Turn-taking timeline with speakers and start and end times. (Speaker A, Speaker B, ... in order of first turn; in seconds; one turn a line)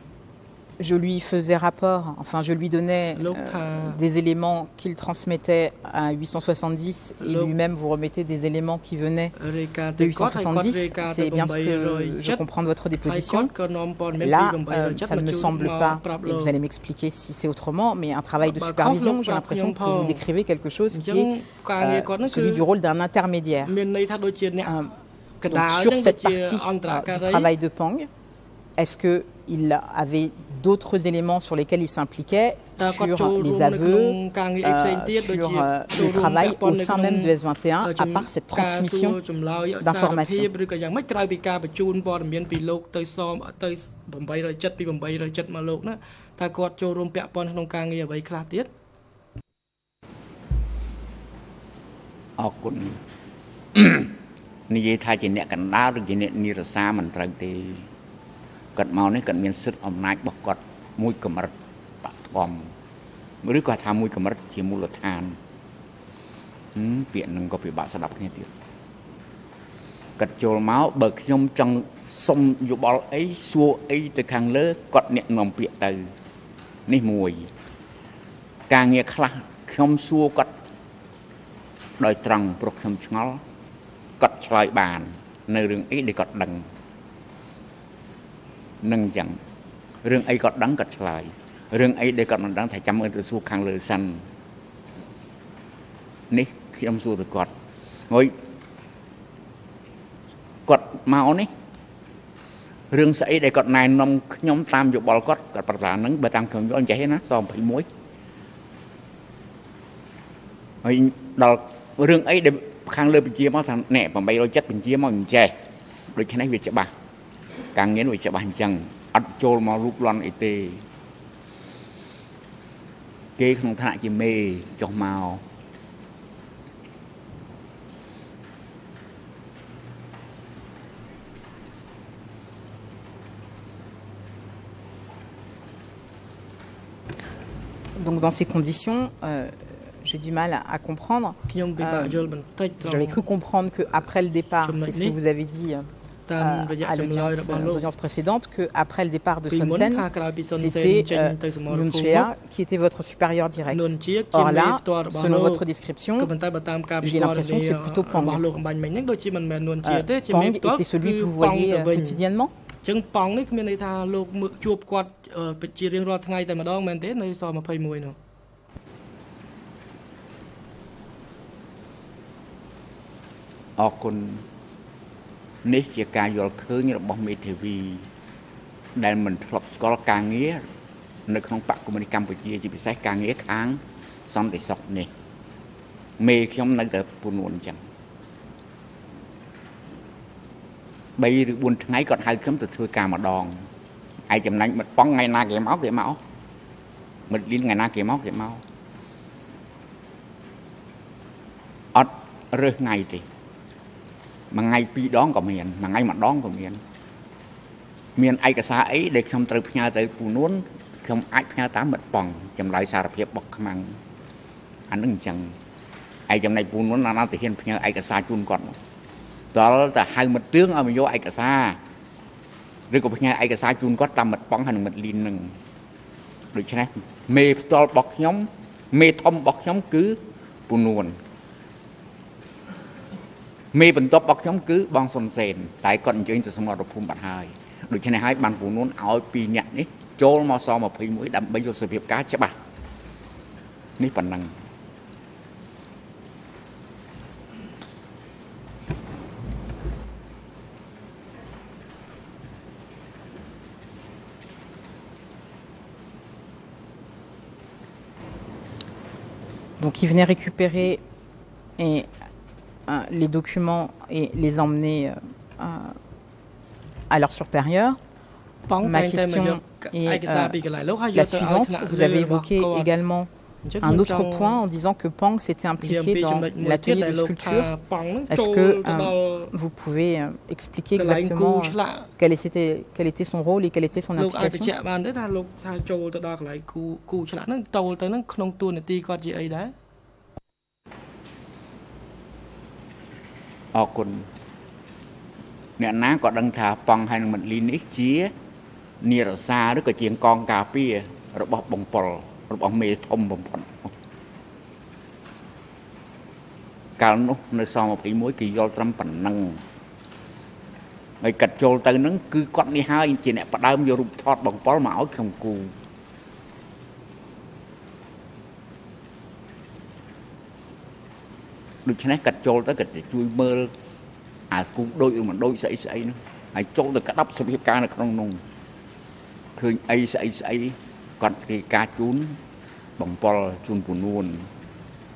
Speaker A: 0.8-9.3
Speaker B: 3.1-4.0
Speaker B: 7.2-7.5
Speaker B: 9.4-12.4
Speaker A: 10.0-13.5
Speaker B: 13.0-16.6
Speaker A: 14.2-23.7
Speaker B: 18.4-20.2
Speaker B: 20.9-22.6
Speaker B: 23.6-24.8
Speaker A: 24.7-24.9
Speaker B: 25.4-27.5
Speaker A: 25.5-28.1
Speaker A: 28.8-39.2
Speaker B: 32.8-48.7
Speaker A: 39.8-40.5
Speaker C: 52.4-53.0
Speaker C: 53.7-54.1
Speaker C: 54.7-57.9
Speaker C: 58.7-62.7
Speaker C: 63.4-65.4
Speaker C: 66.7-68.5
Speaker C: 70.2-76.0
Speaker C: 76.9-77.5
Speaker C: 78.7-80.5
Speaker C: 82.0-83.4
Speaker C: 84.2-86.7
Speaker C: 88.8-89.4
Speaker C: 90.0-94.2
Speaker C: 96.3-97.5
Speaker C: 98.1-98.3
Speaker C: 100.7-101.5
Speaker C: 102.9-107.9
Speaker C: 110.8-115.5
Speaker C: 116.1-116.9
Speaker C: 117.7-120.8
Speaker C: 123.4-125.4
Speaker A: 137.9-142.2
Speaker B: 141.5-143.2
Speaker A: 142.8-145.9
Speaker B: 144.6-145.2
Speaker B: 146.3-147.9
Speaker A: 146.4-150.0
Speaker B: 149.5-152.3
Speaker A: 150.6-156.3
Speaker B: 153.7-155.7
Speaker B: 156.2-162.2
Speaker A: 157.0-158.4
Speaker A: 159.8-162.5
Speaker B: 162.8-168.2
Speaker C: 173.8-174.4
Speaker C: 175.6-178.1
Speaker C: 179.0-180.6
Speaker C: 181.3-185.1
Speaker C: 186.2-187.8
Speaker C: 191.2-193.7
Speaker C: 194.3-196.2
Speaker C: 197.3-198.6
Speaker C: 201.9-203.2
Speaker C: 204.5-206.8
Speaker C: 208.2-214.0
Speaker C: 214.9-215.5
Speaker C: 216.3-218.8
Speaker C: 219.5-221.8
Speaker C: 222.9-225.5
Speaker C: 226.5-231.2
Speaker C: 233.7-242.5
Speaker C: 244.0-244.5
Speaker A: 259.8-261.0
Speaker A: 261.8-262.1
Speaker A: 262.9-265.9
Speaker A: 267.1-268.0
Speaker B: 268.7-272.9
Speaker A: 268.8-270.5
Speaker A: 271.1-273.3
Speaker B: 273.6-274.6
Speaker A: 273.8-277.7
Speaker B: 275.8-279.5
Speaker A: 278.3-284.7
Speaker B: 280.9-282.1
Speaker B: 284.1-289.7
Speaker C: 293.7-294.3
Speaker C: 295.8-298.3
Speaker C: 299.0-303.9
Speaker C: 307.0-309.6
Speaker C: 311.2-315.7
Speaker C: 321.8-323.7
Speaker C: 324.5-328.4
Speaker C: 329.6-332.4
Speaker C: 333.0-334.5